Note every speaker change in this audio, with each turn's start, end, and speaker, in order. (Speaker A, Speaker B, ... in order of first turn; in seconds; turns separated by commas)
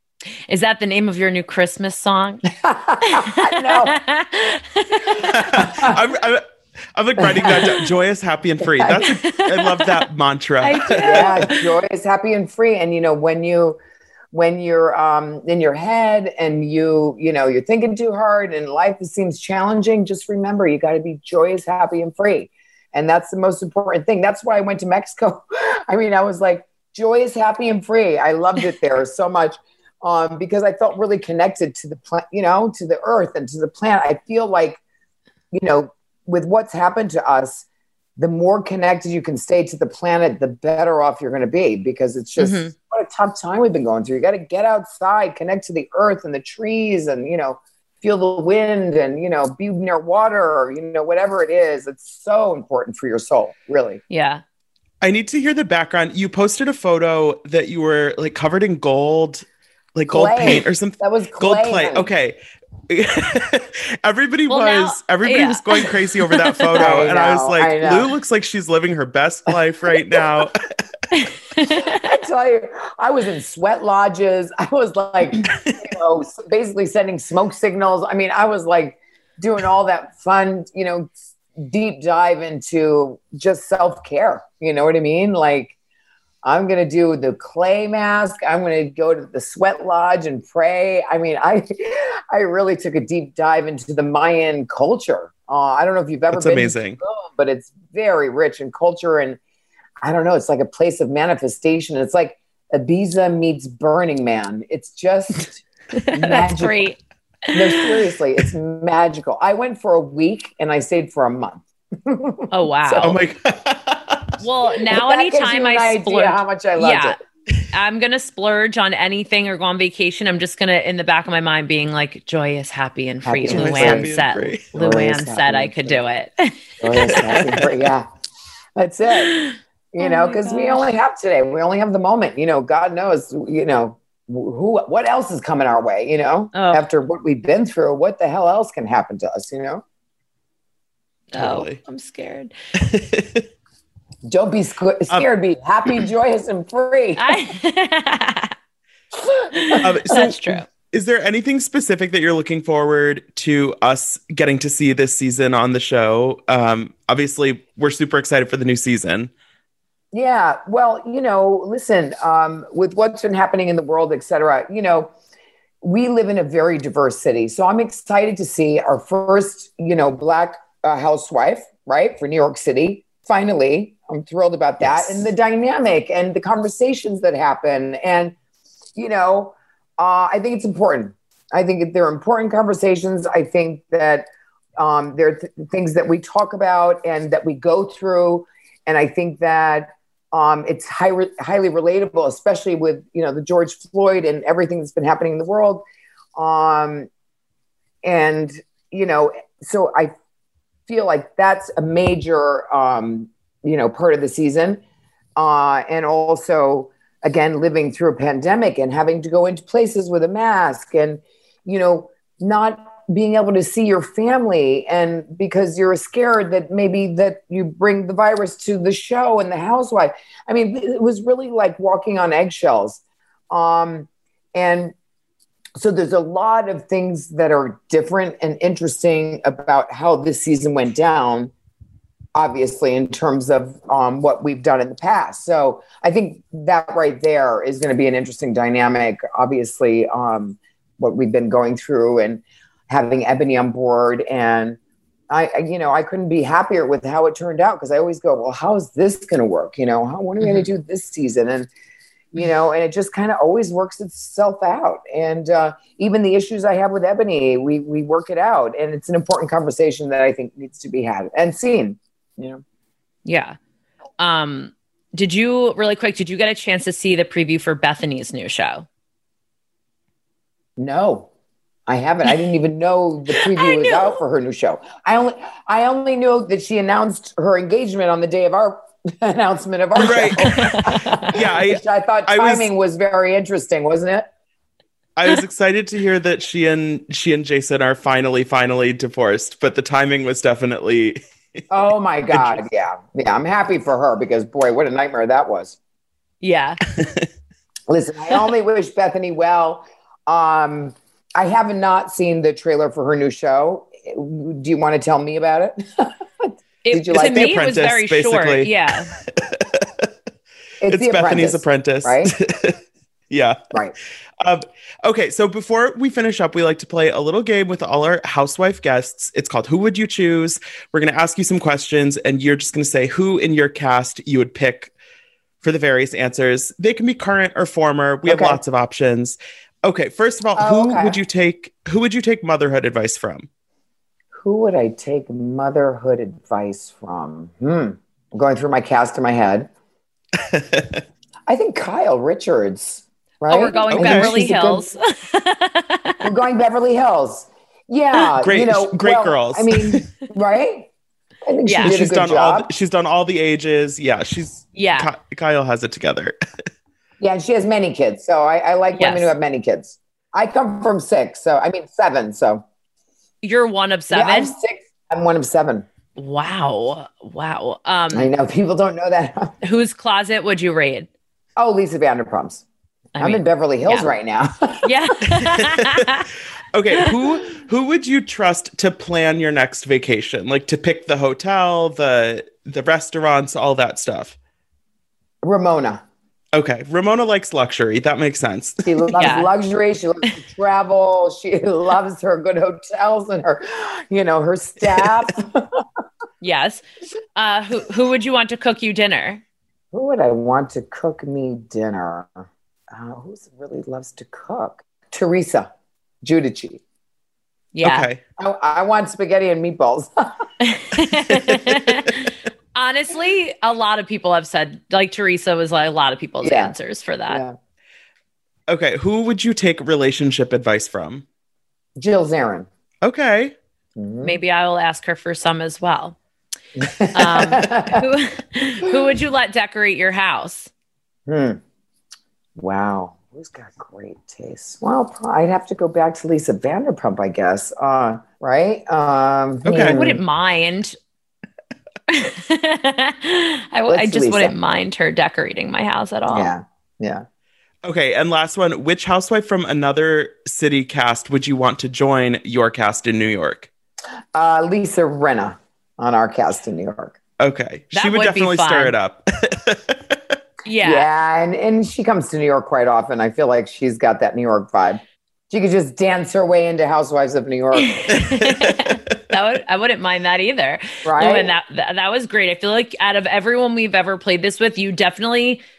Speaker A: 0.5-2.4, Speaker B: 2.5-4.0, Speaker A: 3.0-5.4, Speaker C: 5.2-6.4, Speaker B: 5.5-6.0, Speaker C: 7.0-11.4, Speaker B: 7.2-7.8, Speaker B: 8.6-9.0, Speaker A: 9.0-10.0, Speaker A: 10.6-11.7, Speaker B: 11.0-13.8, Speaker B: 14.3-34.8, Speaker B: 35.5-37.7, Speaker B: 38.2-54.0, Speaker A: 42.4-42.7, Speaker A: 54.1-54.4, Speaker C: 55.0-62.4, Speaker B: 60.1-62.1, Speaker C: 62.9-70.6, Speaker A: 64.5-67.0, Speaker B: 66.8-68.1, Speaker A: 71.1-72.1, Speaker B: 71.8-85.7, Speaker B: 86.4-99.4, Speaker C: 96.3-97.0, Speaker B: 100.0-106.9, Speaker A: 105.9-107.0, Speaker A: 107.5-108.0, Speaker B: 107.5-113.2, Speaker A: 112.5-113.2, Speaker C: 113.0-114.3, Speaker A: 114.4-117.2, Speaker B: 114.9-117.2, Speaker A: 117.7-127.5, Speaker B: 123.2-124.1, Speaker C: 123.5-124.7, Speaker B: 124.7-126.0, Speaker B: 126.8-128.1, Speaker C: 127.4-127.7, Speaker B: 128.8-129.4, Speaker A: 129.2-130.8, Speaker B: 129.9-139.8, Speaker A: 136.5-136.8, Speaker A: 141.3-142.5, Speaker C: 141.3-141.8, Speaker C: 142.8-143.4, Speaker B: 144.3-147.4, Speaker A: 147.2-148.5, Speaker B: 149.1-150.2, Speaker A: 149.5-150.7, Speaker C: 149.8-159.3, Speaker B: 160.1-165.1, Speaker B: 165.8-178.4, Speaker B: 179.0-184.3, Speaker B: 184.8-197.1, Speaker B: 198.0-200.1, Speaker B: 200.9-204.8, Speaker B: 205.4-224.9, Speaker B: 225.8-231.5, Speaker B: 232.3-244.8, Speaker B: 245.3-251.7, Speaker A: 250.4-250.7, Speaker B: 252.3-262.6, Speaker A: 263.3-263.6, Speaker A: 264.2-268.9, Speaker B: 270.8-271.3, Speaker B: 271.9-284.3, Speaker A: 273.6-274.2, Speaker C: 280.0-282.7, Speaker C: 285.2-291.6, Speaker B: 291.7-295.8, Speaker C: 292.3-292.6, Speaker A: 296.4-296.8, Speaker C: 297.0-297.3, Speaker B: 297.9-307.5, Speaker A: 306.8-309.1, Speaker C: 307.1-310.1, Speaker B: 310.8-312.3, Speaker C: 310.9-312.8, Speaker C: 313.3-313.6, Speaker C: 314.4-324.9, Speaker C: 325.6-333.5, Speaker B: 328.2-328.6, Speaker B: 330.6-331.2, Speaker B: 334.3-339.7, Speaker C: 340.4-341.0, Speaker B: 341.5-344.9, Speaker A: 343.5-346.3, Speaker C: 343.9-344.3, Speaker B: 346.2-350.9, Speaker C: 348.4-350.0, Speaker B: 351.4-352.7, Speaker A: 351.7-352.0, Speaker C: 351.8-356.4, Speaker A: 354.8-355.1, Speaker B: 357.2-362.6, Speaker A: 358.9-359.3, Speaker A: 363.4-364.6, Speaker B: 364.1-365.9, Speaker A: 366.2-368.3, Speaker B: 368.1-369.5, Speaker A: 369.6-371.1, Speaker B: 371.6-372.6, Speaker A: 373.1-374.1, Speaker B: 373.2-374.9, Speaker A: 374.8-376.3, Speaker C: 375.4-376.1, Speaker C: 376.7-384.4, Speaker B: 385.4-386.0, Speaker C: 386.5-389.1, Speaker B: 388.9-395.8, Speaker A: 389.2-389.5, Speaker A: 396.4-396.8, Speaker A: 397.4-399.4, Speaker B: 399.9-405.7, Speaker B: 406.2-406.8, Speaker A: 407.7-408.1, Speaker C: 407.8-408.2, Speaker B: 408.4-410.3, Speaker A: 410.6-417.4, Speaker C: 411.3-412.1, Speaker B: 416.4-416.7, Speaker B: 417.3-417.6, Speaker C: 418.7-421.3, Speaker B: 422.0-422.7, Speaker C: 423.0-423.6, Speaker B: 424.0-424.4, Speaker A: 424.2-426.2, Speaker B: 426.8-428.0, Speaker A: 427.1-430.7, Speaker B: 431.3-431.6, Speaker B: 432.6-440.2, Speaker C: 439.7-440.0, Speaker A: 439.7-441.0, Speaker A: 442.1-446.5, Speaker B: 443.9-444.6, Speaker B: 446.3-447.2, Speaker C: 447.8-453.7, Speaker B: 454.3-457.2, Speaker C: 457.4-460.4, Speaker A: 457.9-458.9, Speaker A: 460.7-461.1, Speaker B: 460.8-467.9, Speaker A: 467.8-475.6, Speaker C: 468.2-469.0, Speaker B: 471.1-471.5